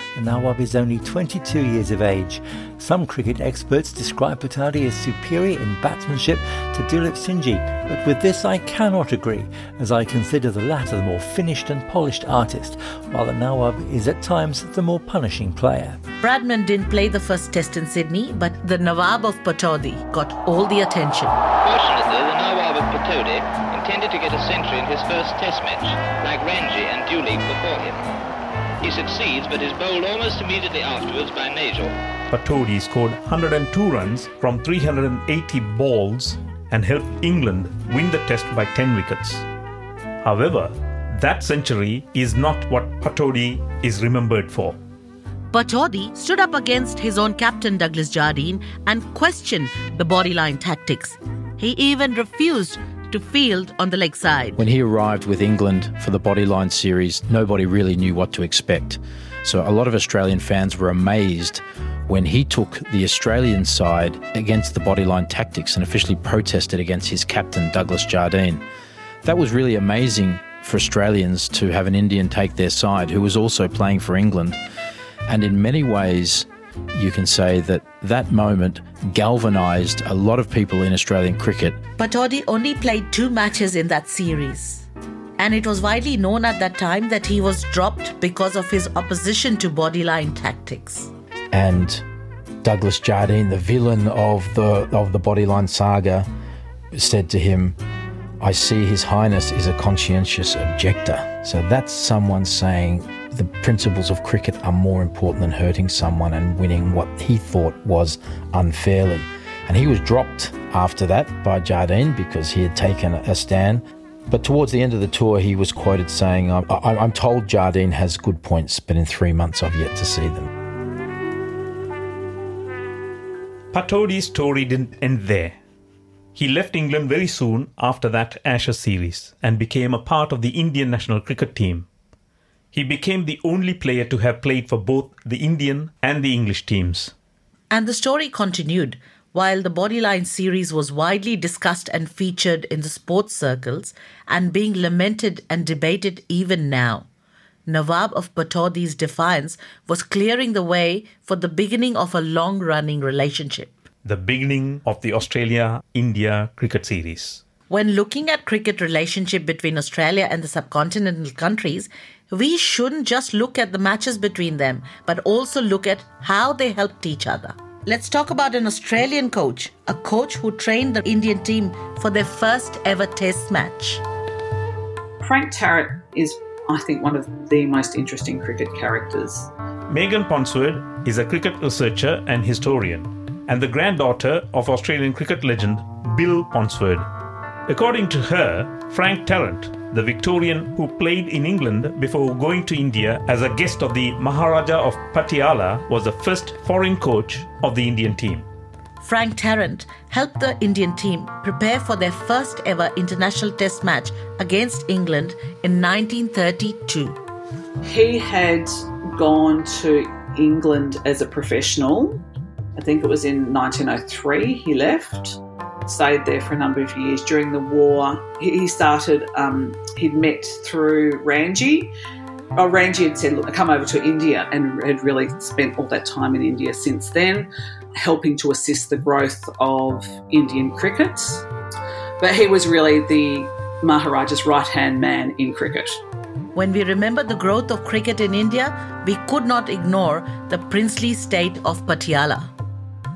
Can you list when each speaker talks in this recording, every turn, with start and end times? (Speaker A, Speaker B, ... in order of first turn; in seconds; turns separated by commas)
Speaker A: 0.2-16.0, Speaker B: 16.2-21.4, Speaker C: 21.6-28.0, Speaker C: 28.8-31.9, Speaker D: 32.3-39.5, Speaker D: 40.2-44.8, Speaker B: 45.5-54.6, Speaker E: 54.6-68.6, Speaker E: 69.2-74.6, Speaker E: 75.3-81.8, Speaker B: 82.0-91.1, Speaker E: 91.5-92.0, Speaker E: 92.6-96.3, Speaker E: 96.9-97.8, Speaker E: 98.4-120.5, Speaker D: 123.7-125.6, Speaker D: 126.3-131.9, Speaker D: 132.7-137.1, Speaker B: 137.7-147.1, Speaker B: 147.7-153.7, Speaker D: 154.1-157.4, Speaker B: 157.7-174.0, Speaker F: 175.2-179.5, Speaker D: 179.9-187.1, Speaker D: 187.7-198.5, Speaker B: 199.0-207.2, Speaker F: 207.8-212.2, Speaker F: 212.8-221.9, Speaker F: 222.6-231.4, Speaker F: 232.2-236.0, Speaker B: 236.6-242.5